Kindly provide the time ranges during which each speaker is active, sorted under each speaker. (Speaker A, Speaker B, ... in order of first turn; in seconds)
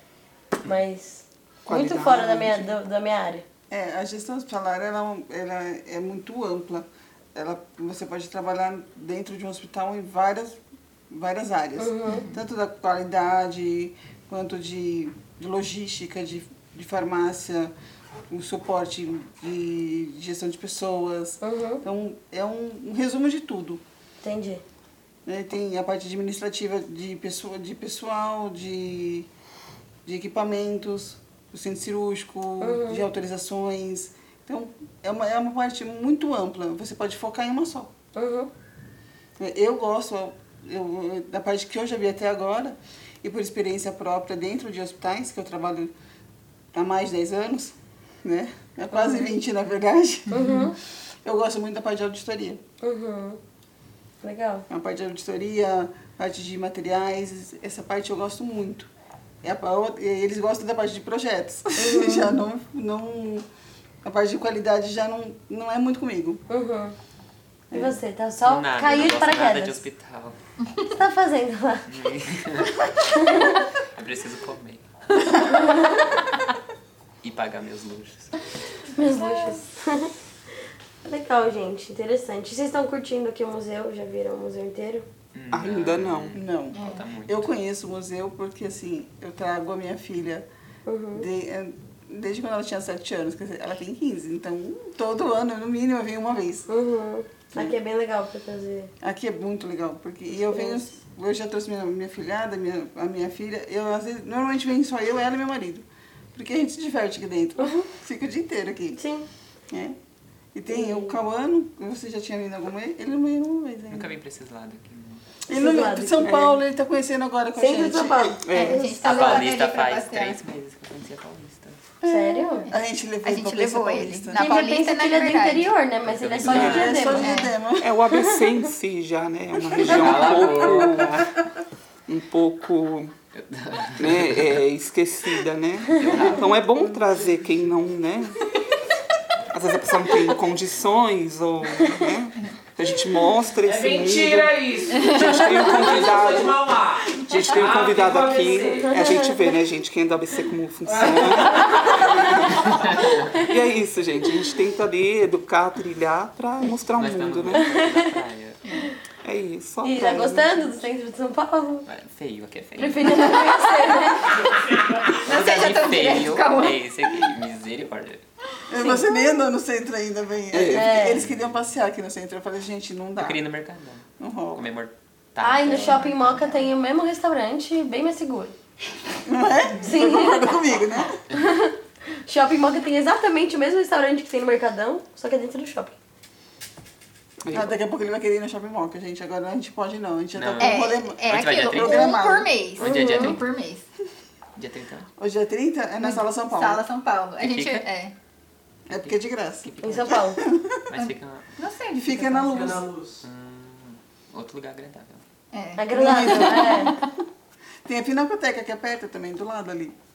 Speaker A: 0.6-3.4, 11.8-12.3, 21.4-21.8, 24.2-24.6, 32.6-33.0, 38.1-38.5, 48.9-49.3, 50.3-50.8, 52.8-53.4, 54.2-54.7, 61.8-62.4, 66.5-67.0, 67.7-69.9, 70.9-72.0, 73.0-73.6, 75.5-76.0, 79.0-80.1, 81.0-85.1, 90.9-91.3, 96.7-98.9, 100.3-100.9, 109.0-109.3, 110.7-111.2, 115.5-116.5, 117.6-119.5, 122.0-122.7, 124.3-127.5, 148.4-149.4, 157.6-158.2, 159.8-161.9, 162.8-164.6, 170.7-171.2, 175.4-178.5, 179.7-181.7, 182.2-186.0, 192.8-193.4, 199.8-200.4, 205.8-206.9
Speaker B: 1.6-2.8, 85.5-86.4, 116.2-116.6, 118.5-118.8, 127.8-131.2, 132.1-133.1, 134.0-138.5, 139.5-152.6, 153.3-157.7, 159.2-160.7, 170.5-171.0, 187.4-187.8
Speaker C: 3.7-10.6, 11.1-17.7, 18.3-23.8, 25.3-29.3, 30.1-37.9, 39.4-45.9, 46.7-50.5, 51.2-52.6, 54.7-58.9, 59.4-63.5, 64.0-66.4, 67.7-68.0, 86.3-90.5, 91.2-96.7, 99.0-109.0, 109.7-110.0, 110.5-114.1, 115.5-118.4, 122.0-124.7, 126.4-128.0, 129.9-130.5, 168.7-173.4, 174.2-174.6, 179.2-181.2, 187.5-192.5, 195.2-196.9, 198.9-200.8, 202.0-202.9, 205.9-207.1, 207.8-210.0
Speaker D: 12.1-12.3, 50.4-50.7, 79.0-79.6, 86.7-87.1, 118.5-120.4, 122.6-125.8, 127.1-127.5, 144.9-145.9, 164.9-167.3, 190.6-193.9, 196.0-198.1, 200.9-202.9, 205.5-207.1
Speaker E: 68.5-70.4, 71.9-72.8, 74.0-75.2, 77.2-78.5, 85.3-87.6, 113.9-115.2, 119.0-121.8, 126.0-127.2, 129.8-131.4, 133.3-134.6, 135.9-136.5, 152.8-153.1, 156.9-158.7, 161.9-163.3, 165.2-168.2, 171.1-171.5, 173.2-176.4, 190.3-192.2, 192.8-193.5, 194.6-195.1, 197.4-197.9, 199.0-201.5, 203.2-205.2
Speaker F: 143.7-149.1, 150.9-152.1, 202.5-203.2